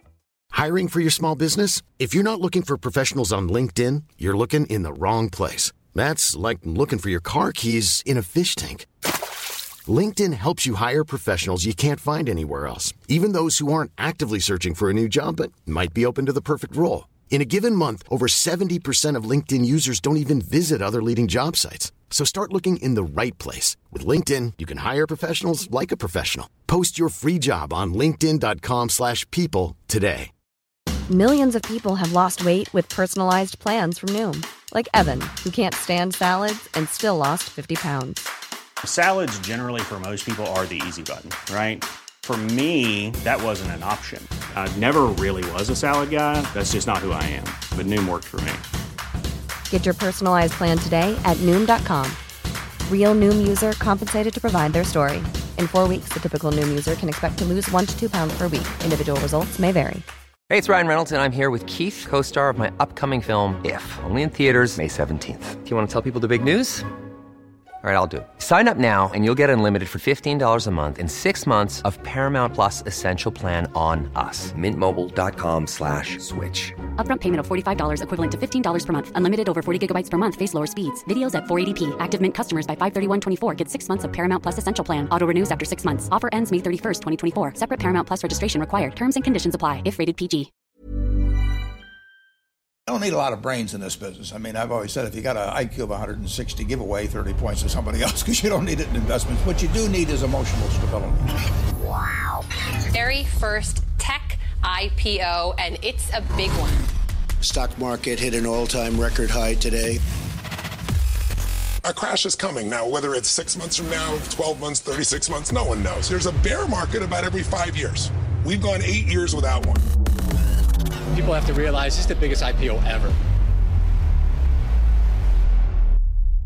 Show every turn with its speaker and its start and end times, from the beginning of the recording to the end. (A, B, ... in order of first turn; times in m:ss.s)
0:00.5-0:08.9 A
0:09.9-0:30.3 A
0:31.1-0:38.3 B
0:38.8-0:48.6 C
0:49.7-0:52.2 B
0:52.9-1:00.0 B
1:00.5-1:06.9 D
1:07.8-1:16.8 D
1:17.0-1:30.5 E
1:32.9-1:41.3 F
1:42.9-1:46.8 G
1:47.4-1:50.0 H
1:51.8-1:59.8 I
2:01.1-2:03.2 J